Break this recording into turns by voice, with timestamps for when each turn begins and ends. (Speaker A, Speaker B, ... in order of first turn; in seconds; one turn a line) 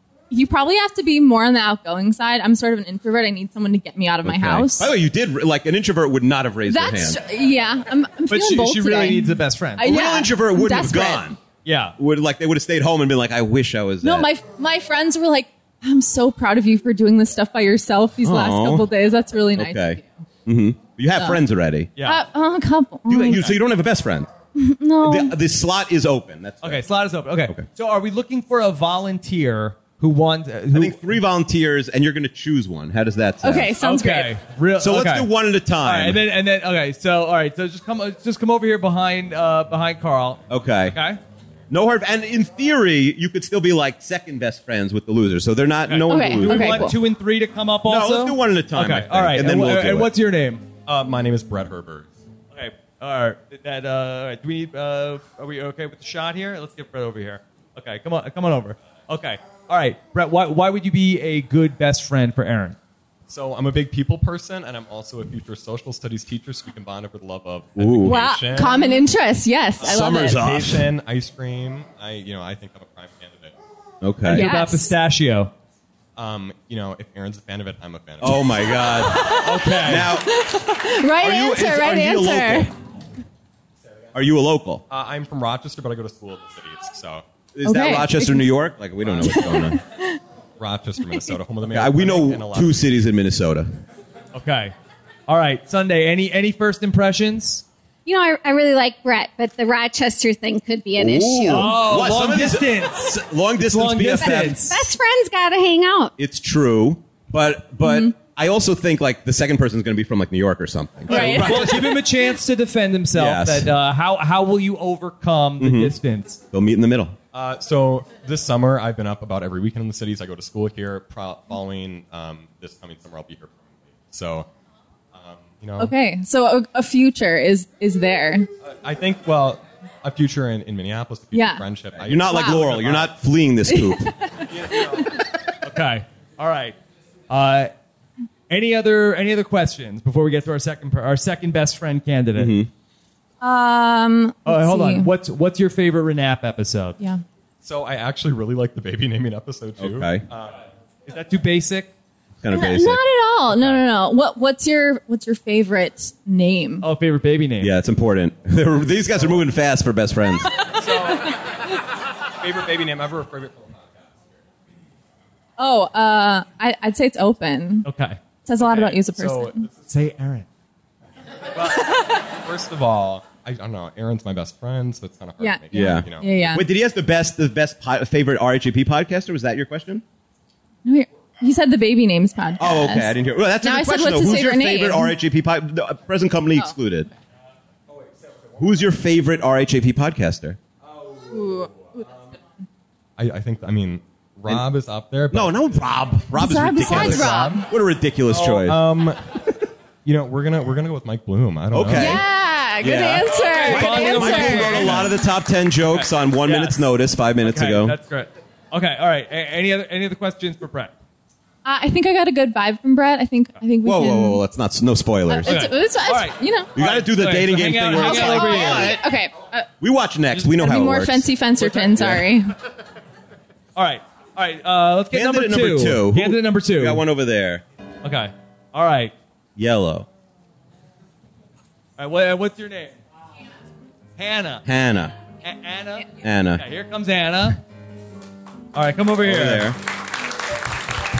Speaker A: 0.3-4.9
Speaker B: 4.2-7.2
Speaker A: 6.7-11.3
Speaker C: 8.3-9.9
Speaker B: 9.8-11.4
Speaker C: 11.6-11.9
Speaker B: 12.0-14.3
Speaker A: 14.0-20.2
Speaker B: 18.2-18.9
Speaker B: 19.5-21.9
Speaker C: 22.0-22.2
Speaker A: 22.0-23.6
Speaker B: 23.1-24.3
Speaker A: 24.5-25.3
Speaker B: 25.0-26.8
Speaker C: 26.6-31.2
Speaker B: 30.7-33.7
Speaker A: 33.4-34.3
Speaker C: 33.8-35.3
Speaker B: 34.8-36.2
Speaker C: 35.8-41.2
Speaker B: 40.5-41.0
Speaker B: 41.7-47.0
Speaker C: 45.9-50.6
Speaker A: 46.1-46.9
Speaker B: 47.8-50.1
Speaker D: 50.9-52.1
Speaker C: 52.5-62.8
Speaker D: 63.3-69.1
Speaker B: 67.8-68.3
Speaker A: 68.0-70.4
Speaker D: 69.8-73.5
Speaker B: 69.8-70.9
Speaker B: 74.0-74.5
Speaker C: 74.2-75.5
Speaker A: 74.3-74.9
Speaker D: 76.2-78.6
Speaker B: 78.2-80.3
Speaker A: 79.1-79.4
Speaker C: 79.3-80.1
Speaker A: 80.1-82.7
Speaker B: 81.2-82.7
Speaker B: 84.1-84.8
Speaker D: 84.9-87.2
Speaker B: 87.5-89.8
Speaker A: 87.6-88.4
Speaker A: 89.3-90.2
Speaker D: 90.6-92.9
Speaker B: 91.7-93.7
Speaker C: 94.3-94.7
Speaker C: 95.3-97.6
Speaker E: 98.0-101.7
Speaker B: 101.0-104.7
Speaker C: 101.5-104.8
Speaker E: 104.3-106.1
Speaker B: 106.2-112.0
Speaker A: 107.8-108.1
Speaker C: 111.1-116.4
Speaker A: 111.1-111.5
Speaker B: 113.1-113.7
Speaker B: 115.6-115.9
Speaker B: 116.5-117.2
Speaker D: 117.3-124.5
Speaker D: 125.1-125.9
Speaker A: 125.8-128.5
Speaker D: 128.6-133.1
Speaker A: 131.3-131.7
Speaker B: 131.9-134.1
Speaker A: 132.3-132.7
Speaker A: 133.7-135.1
Speaker D: 134.5-135.1
Speaker C: 135.6-136.8
Speaker C: 137.3-137.7
Speaker C: 138.5-142.6
Speaker B: 142.3-142.7
Speaker A: 143.4-145.1
Speaker C: 144.4-147.0
Speaker D: 147.6-150.6
Speaker B: 149.8-150.2
Speaker C: 151.1-151.9
Speaker B: 152.4-153.0
Speaker A: 152.5-156.8
Speaker C: 153.5-153.8
Speaker C: 156.8-157.7
Speaker B: 157.6-160.6
Speaker D: 159.2-159.4
Speaker D: 160.6-161.7
Speaker D: 162.4-164.3
Speaker A: 165.6-167.9
Speaker C: 167.8-169.1
Speaker A: 168.4-169.7
Speaker D: 169.0-169.7
Speaker C: 169.9-170.4
Speaker D: 171.5-176.4
Speaker A: 175.4-176.6
Speaker B: 175.7-180.0
Speaker A: 180.8-185.1
Speaker B: 182.6-187.1
Speaker B: 188.6-190.6
Speaker D: 190.9-192.3
Speaker A: 191.3-192.1
Speaker D: 193.2-196.0
Speaker B: 195.3-198.8
Speaker A: 196.3-197.6
Speaker C: 196.8-197.7
Speaker C: 198.3-198.7
Speaker D: 198.5-199.4
Speaker D: 200.0-202.2
Speaker B: 201.7-202.2
Speaker A: 202.0-204.8
Speaker B: 202.8-208.0
Speaker C: 203.3-205.2
Speaker C: 205.8-210.9
Speaker A: 211.6-214.4
Speaker B: 213.8-215.6
Speaker A: 215.3-216.8
Speaker C: 215.4-219.0
Speaker B: 216.7-219.0
Speaker A: 218.0-219.7
Speaker B: 219.8-221.3
Speaker A: 220.5-222.5
Speaker C: 221.5-222.1
Speaker B: 221.9-222.3
Speaker C: 223.8-227.0
Speaker B: 225.1-227.6
Speaker C: 228.0-229.1
Speaker B: 229.6-230.1
Speaker C: 232.0-232.9
Speaker C: 234.2-234.6
Speaker B: 234.6-235.1
Speaker C: 235.4-237.6
Speaker B: 236.2-236.6
Speaker C: 238.7-239.7
Speaker B: 239.2-239.8